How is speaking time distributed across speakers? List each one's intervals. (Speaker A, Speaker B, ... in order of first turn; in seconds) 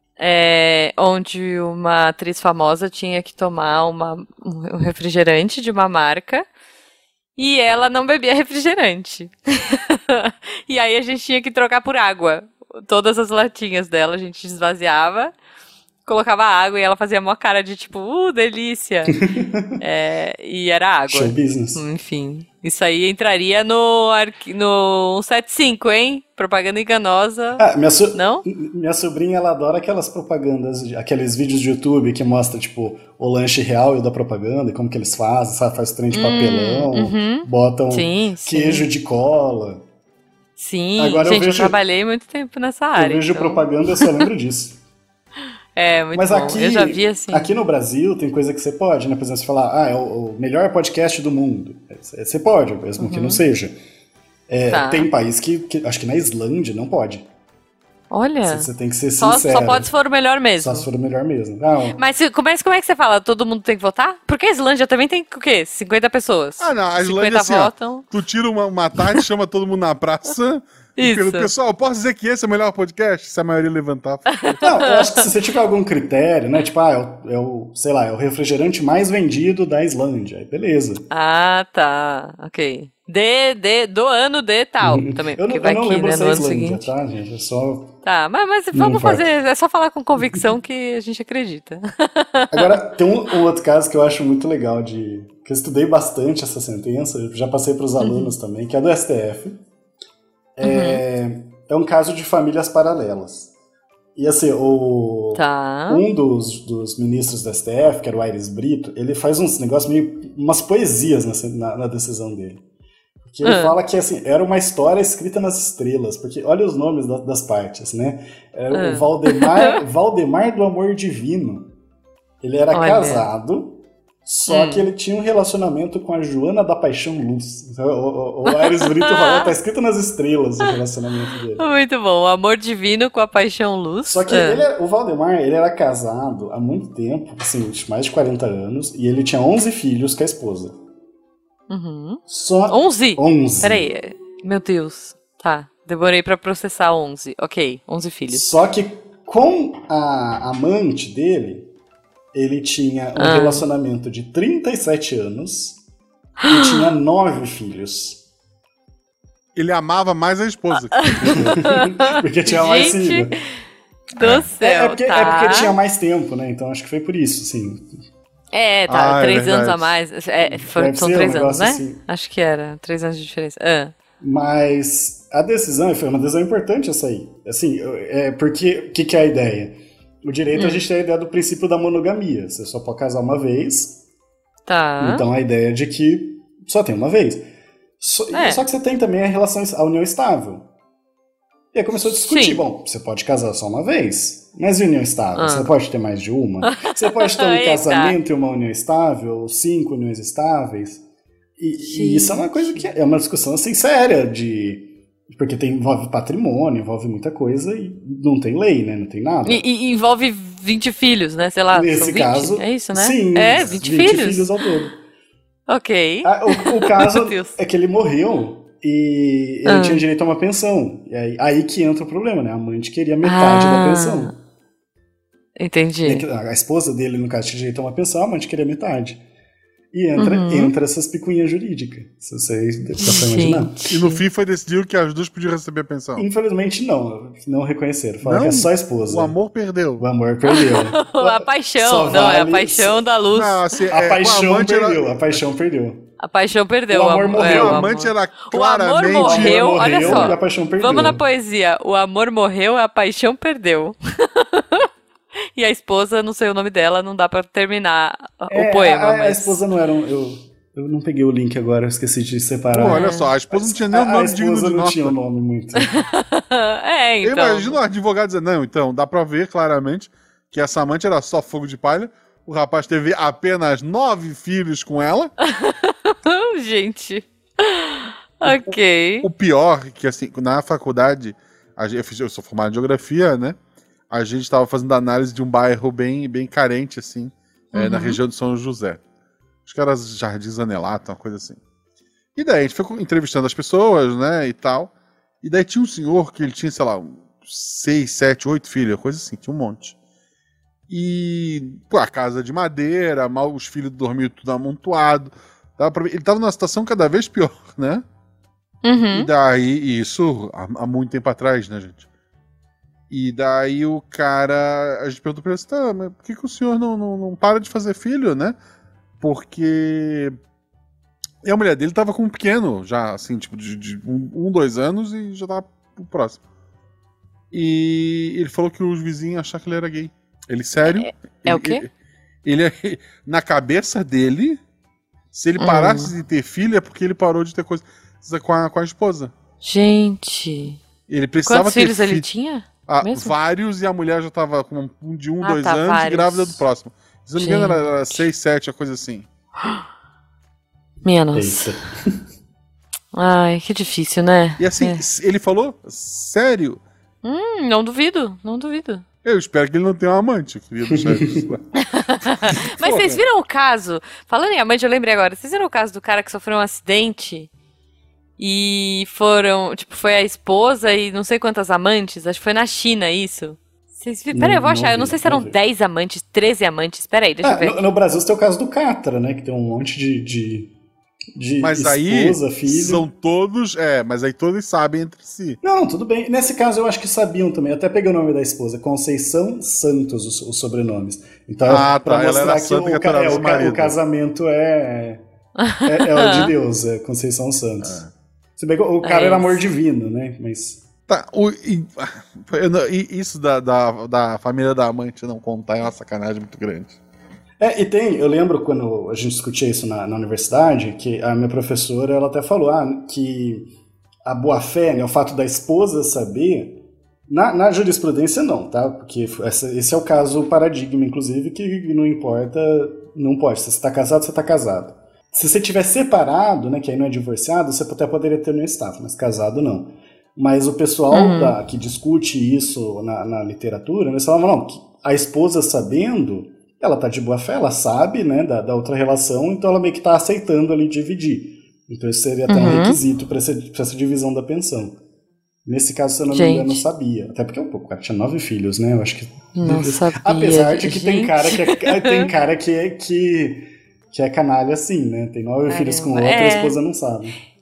Speaker A: 0.2-6.5, 7.4-15.3, 16.1-19.2, 19.8-28.4, 36.1-38.9, 40.6-44.2, 45.8-47.5, 53.0-53.4, 54.7-55.1, 58.1-60.9, 62.0-68.1, 71.0-71.5, 74.5-75.2, 81.1-86.9, 88.0-92.8, 98.0-98.3, 100.6-101.0, 105.3-106.0, 113.4-113.7, 118.7-119.8, 122.7-123.3, 124.5-124.9, 128.4-129.5, 131.6-134.6, 141.7-148.4, 153.2-153.6, 156.4-156.8, 161.0-163.3, 164.2-165.7, 168.5-173.9, 180.5-180.8, 184.7-185.2, 188.3-188.6, 192.1-192.6, 195.3-195.7, 196.6-198.2, 201.8-202.8, 209.4-214.5, 215.7-217.6, 219.7-220.0, 223.2-224.3, 225.6-226.2, 230.2-230.7, 233.0-234.2, 240.5-243.7, 246.2-254.9, 255.6-259.6, 262.9-263.3, 265.8-267.8, 275.4-279.3, 287.7-288.2, 308.8-309.3, 330.9-331.8, 335.6-336.1, 339.6-340.8, 341.4-343.3, 345.4-346.6, 347.4-348.2, 351.0-351.7, 353.1-355.0, 357.2-359.0, 361.8-367.5, 368.4-377.8, 395.6-396.5, 399.0-399.6, 431.1-431.6, 442.5-443.0, 446.3-446.8, 449.5-452.3, 455.7-456.8
Speaker B: 19.2-19.8, 21.1-21.8, 27.6-39.8, 41.0-41.8, 43.0-44.8, 46.1-53.8, 54.5-57.3, 58.4-59.9, 60.6-62.0, 74.6-81.0, 84.8-87.9, 88.7-89.2, 92.5-99.6, 100.6-103.5, 104.1-112.6, 113.2-121.7, 122.4-131.6, 134.0-140.8, 142.3-143.9, 148.3-151.7, 152.3-155.8, 156.4-158.2, 161.3-163.4, 164.6-167.9, 170.5-172.0, 174.2-184.0, 185.0-187.5, 188.0-190.7, 191.7-201.0, 201.6-209.6, 211.7-215.0, 216.2-224.3, 226.0-229.2, 229.9-233.8, 236.2-239.3, 240.0-243.1, 243.9-246.1, 246.9-247.8, 249.1-251.2, 258.5-265.9, 351.3-352.2, 360.9-361.5, 374.3-375.6, 377.4-380.7, 381.3-383.1, 385.6-395.2, 395.8-398.0, 398.6-400.9, 407.6-413.7, 414.2-445.0, 445.6-457.4
Speaker C: 66.6-74.6, 159.6-161.6, 164.2-164.5, 168.9-170.0, 233.9-236.2, 238.2-240.1, 243.3-245.1, 247.4-250.3, 262.7-265.1, 267.2-275.3, 278.4-283.6, 284.1-289.0, 289.6-291.6, 292.4-299.9, 300.9-308.0, 309.1-312.0, 313.1-318.6, 319.2-320.4, 321.4-326.4, 327.5-331.9, 332.4-334.6, 335.3-339.3, 341.1-342.3, 342.9-349.3, 354.6-356.8, 359.2-363.2, 381.6-385.6, 391.7-393.9, 401.1-407.0